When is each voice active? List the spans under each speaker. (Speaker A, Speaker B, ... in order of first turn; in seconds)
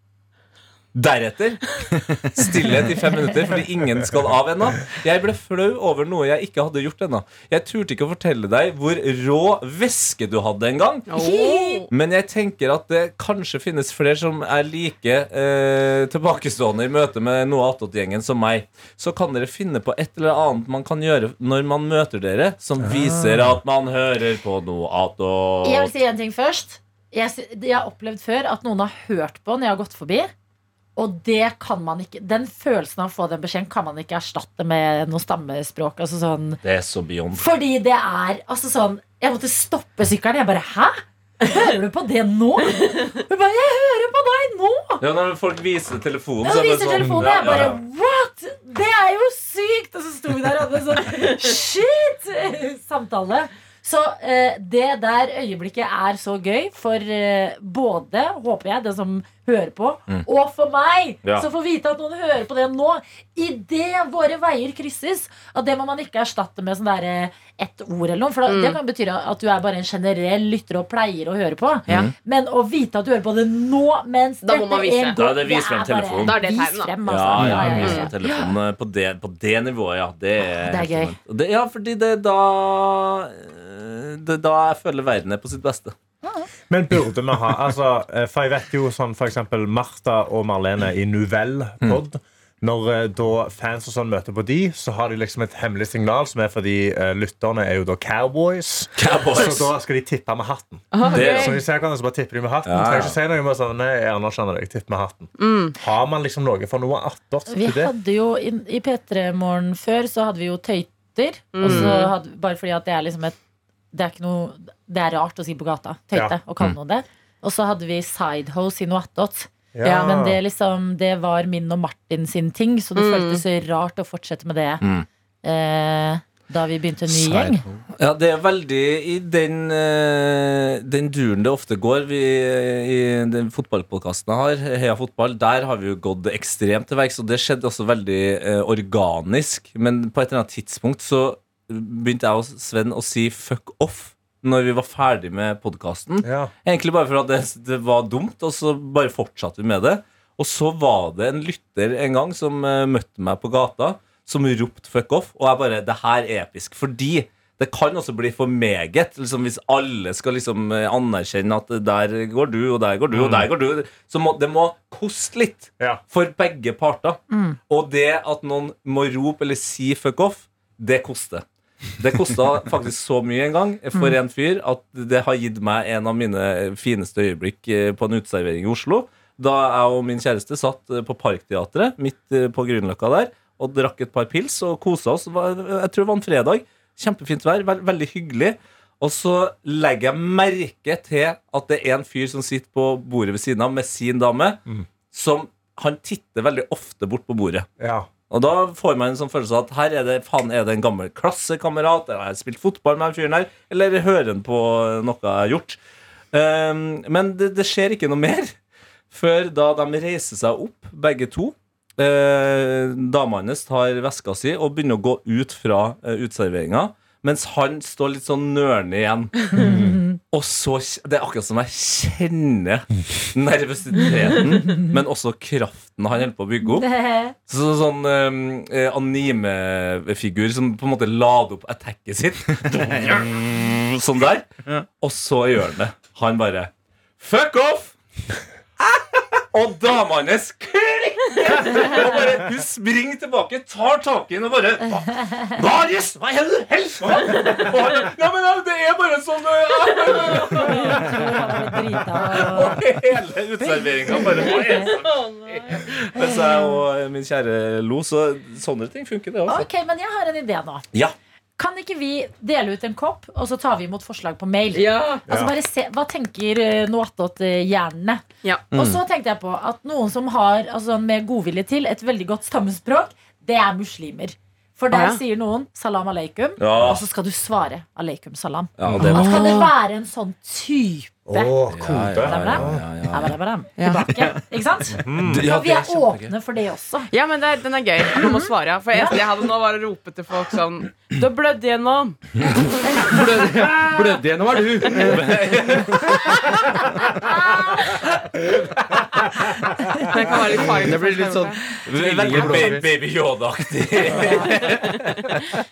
Speaker A: 0.9-11.1, 11.9-25.9, 36.6-37.4, 45.0-47.8, 71.9-72.1, 75.2-76.4, 77.0-85.9, 99.0-99.7, 101.0-101.6, 102.7-103.2, 124.8-125.1, 128.0-171.4, 172.0-197.7, 198.3-205.8, 206.3-208.5, 209.1-226.9, 227.5-237.9, 239.5-251.5, 252.2-259.6, 276.6-277.0, 278.8-279.6, 281.7-283.4, 285.1-286.3, 294.9-296.5, 301.9-305.3
Speaker B: 11.1-11.9, 68.5-68.8, 74.4-75.2, 76.2-78.1, 100.9-101.6, 105.4-105.7, 111.5-112.1, 123.0-123.4, 254.6-255.9, 264.7-265.3, 274.9-275.2, 279.0-279.7, 283.8-284.1, 287.1-292.2, 300.1-301.6
Speaker C: 11.1-11.9, 25.6-30.3, 30.9-36.6, 37.3-45.0, 46.4-78.5, 80.5-81.1, 107.5-113.4, 113.9-124.8, 125.4-127.6, 167.3-167.6, 219.6-220.2, 226.6-227.3, 250.3-252.8, 253.6-254.9, 256.1-256.8, 259.5-260.8, 261.6-287.1, 288.1-289.2, 292.9-293.1, 297.0-297.7
Speaker D: 22.8-23.5, 47.0-47.7, 86.7-107.9, 119.7-120.4, 146.2-146.5, 163.1-163.5, 197.8-198.1, 219.5-220.0, 265.3-265.5, 278.9-279.2, 281.2-282.9, 285.0-285.4
Speaker E: 77.4-77.8, 127.1-127.8, 232.7-233.2, 268.7-269.0, 292.9-296.4, 300.7-302.9